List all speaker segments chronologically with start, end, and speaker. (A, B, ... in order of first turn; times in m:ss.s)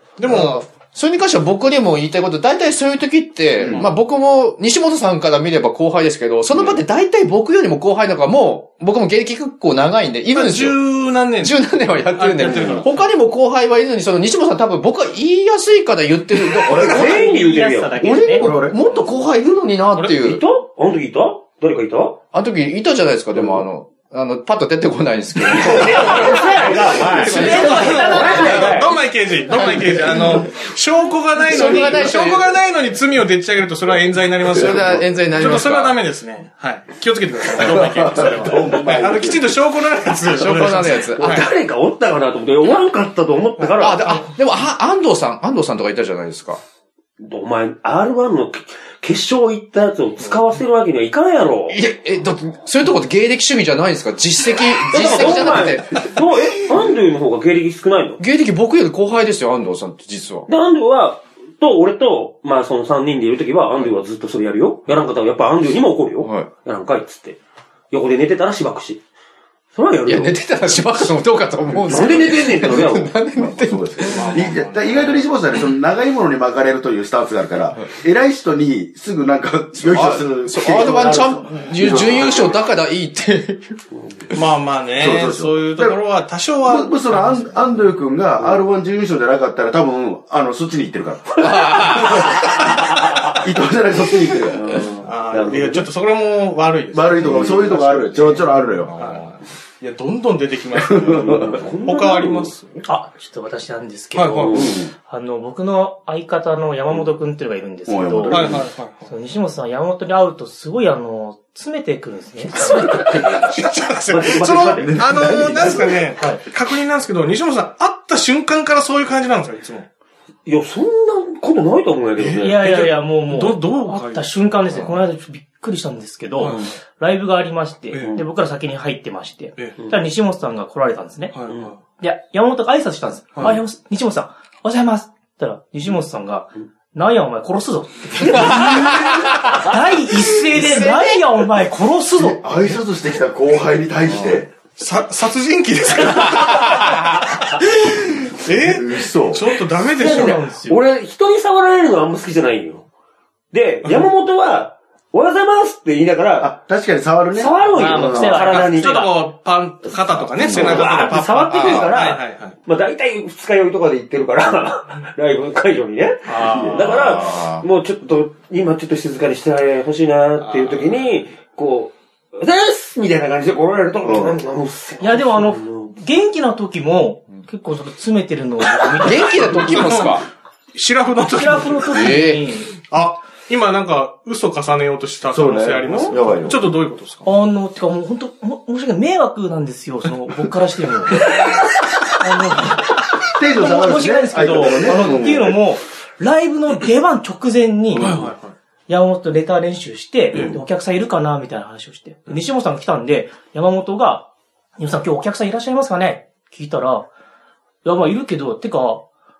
0:00.2-0:00.6 A
0:00.2-0:10.8 B
0:03.6-0:03.8 C
0:10.3-0:13.0 A
0:11.4-0:17.2 B
0:16.4-0:17.2 C
0:16.8-0:18.2 D
0:16.8-0:18.5 E
0:18.0-0:18.8 C
0:18.3-0:20.4 B
0:20.1-0:22.2 D
0:22.3-0:28.8 B
0:25.5-0:28.9 D
0:25.9-0:28.8 E
0:27.3-0:41.5 A
0:29.5-0:30.5 B
0:31.4-0:32.4 B
0:34.5-0:35.0 C
0:34.5-0:36.0 B
0:37.5-0:39.5 C
0:40.4-0:41.4 B
0:41.2-0:44.2 D
0:43.8-0:46.6 B
0:47.2-0:51.8 D
0:51.7-0:56.2 B
0:54.9-0:58.2 D
0:58.2-1:00.5 B
1:00.5-1:07.4 D
1:06.2-1:06.5 B
1:07.9-1:09.0 D
1:09.7-1:10.4 D
1:10.0-1:14.4 B
1:11.9-1:13.1 D
1:12.6-1:22.6 C
1:14.0-1:15.3 A
1:19.8-1:23.8 B
1:23.9-1:24.2 D
1:24.3-1:27.6 A
1:25.0-1:26.0 C
1:26.6-1:35.0 C
1:31.4-1:32.4 B
1:34.7-1:35.9 D
1:35.0-1:42.8 A
1:36.9-1:38.9 C
1:37.2-1:37.5 D
1:38.8-1:39.2 B
1:40.8-1:41.6 C
1:41.1-1:42.5 D
1:42.8-1:53.0 E
1:44.1-1:44.6 A
1:44.4-1:44.8 D
1:44.6-1:44.9 C
1:47.8-1:48.6 C
1:48.3-1:49.1 A
1:52.6-1:59.9 A
1:52.7-1:53.5 D
1:54.1-1:55.9 D
1:54.8-1:56.0 C
1:56.2-1:56.4 E
2:00.4-2:02.7 D
2:02.2-2:04.3 A
2:02.4-2:11.4 E
2:06.4-2:06.7 A
2:08.0-2:08.2 D
2:11.3-2:11.8 A
2:12.0-2:22.4 E
2:18.4-2:19.5 B
2:20.4-2:21.2 B
2:22.1-2:24.5 C
2:24.8-2:30.5 A
2:26.4-2:27.2 B
2:28.5-2:29.5 C
2:29.9-2:30.8 E
2:30.0-2:32.8 D
2:33.5-2:36.5 D
2:36.4-2:38.4 C
2:37.3-2:39.1 D
2:37.7-2:39.2 E
2:38.2-2:42.6 A
2:40.4-2:40.9 C
2:40.4-2:55.9 D
2:41.5-2:41.9 B
2:46.3-2:46.8 E
2:46.4-2:47.2 C
2:46.8-2:47.6 B
2:50.4-2:51.0 A
2:54.0-2:54.4 C
2:55.0-2:59.9 E
2:59.0-3:00.2 B
2:59.6-3:00.2 A
3:00.7-3:02.1 A
3:01.3-3:02.7 E
3:01.9-3:02.4 B
3:02.8-3:07.3 A
3:05.3-3:06.7 C
3:07.2-3:11.3 E
3:12.2-3:12.9 E
3:13.4-3:15.6 C
3:13.5-3:18.2 E
3:17.9-3:18.5 A
3:17.9-3:18.3 C
3:18.9-3:27.1 E
3:27.8-3:29.0 E